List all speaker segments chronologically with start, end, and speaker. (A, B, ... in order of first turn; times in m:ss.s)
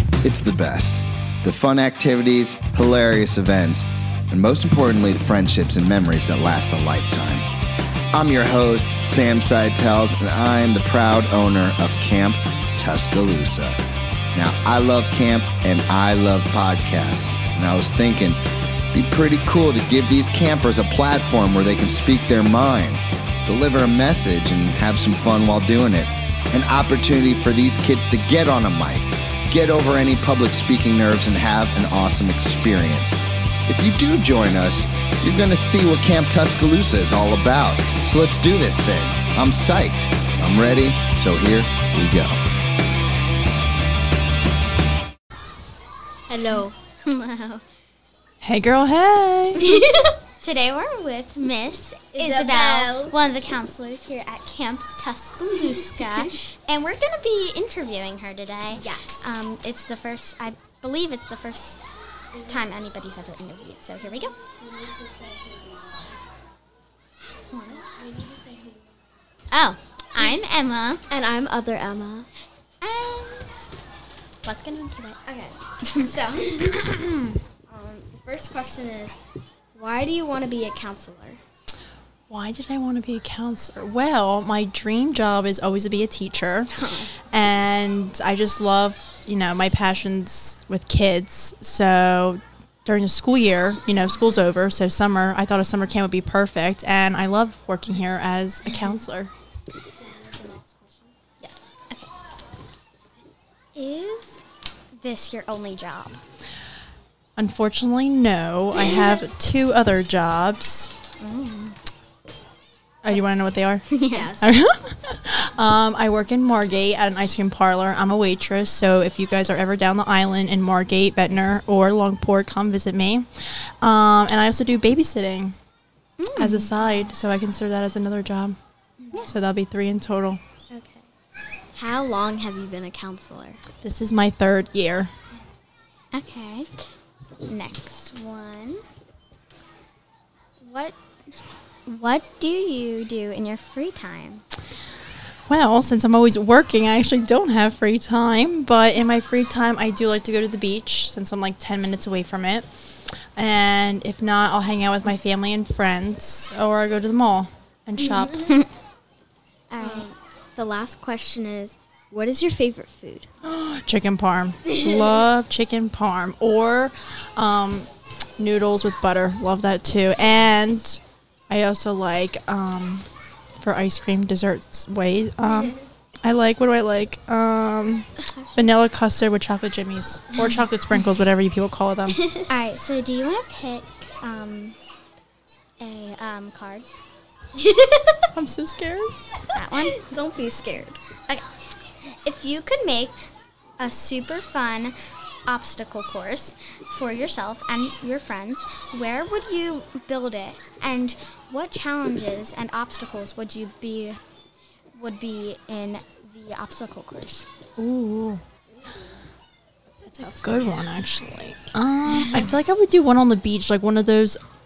0:00.2-0:07.4 A
0:08.1-0:13.8 A
0:14.3-0:18.4 A
0:18.9-0:42.4 A
0:46.3-0:46.7 B
0:46.6-0:47.6 C
0:48.4-0:49.6 D
0:49.6-0:50.2 B
0:50.4-1:01.9 C
0:52.2-0:53.2 B
0:55.6-0:56.4 B
0:58.7-0:59.4 B
1:02.4-1:04.3 C
1:04.7-1:05.9 B
1:07.5-1:08.1 C
1:07.8-1:08.8 B
1:09.5-1:11.0 C
1:11.1-1:12.3 B
1:12.8-1:13.6 C
1:14.4-1:15.2 C
1:15.3-1:17.0 B
1:15.8-1:16.2 C
1:16.9-1:17.3 D
1:17.7-1:19.2 B
1:19.7-1:21.4 B
1:22.3-1:26.7 D
1:27.3-1:39.3 D
1:40.2-1:41.1 B
1:41.4-1:42.1 C
1:43.8-1:44.4 C
1:44.9-1:46.2 C
1:47.4-1:50.9 D
1:51.2-1:51.8 C
1:53.0-2:05.6 D
1:53.9-1:54.4 C
1:54.1-1:54.5 B
2:06.2-2:06.7 C
2:06.4-2:08.6 D
2:09.2-2:10.4 D
2:10.7-2:11.1 C
2:11.8-2:13.6 B
2:13.8-2:15.1 D
2:16.1-2:16.7 C
2:17.5-2:18.8 C
2:20.6-2:21.0 C
2:21.9-2:24.4 C
2:25.5-2:32.7 D
2:33.4-2:38.6 D
2:39.7-2:40.1 C
2:39.8-2:43.3 B
2:43.4-2:53.0 D
2:44.7-2:45.0 B
2:53.6-3:02.2 D
3:02.1-3:02.4 B
3:02.5-3:04.8 C
3:05.8-3:06.8 C
3:07.6-3:08.3 B
3:08.3-3:09.1 D
3:09.5-3:10.0 C
3:09.8-3:11.0 B
3:12.2-3:13.2 C
3:13.8-3:14.9 C
3:15.5-3:24.2 C
3:25.0-3:27.5 C
3:27.8-3:28.4 D
3:30.2-3:30.5 B
3:30.2-3:34.4 D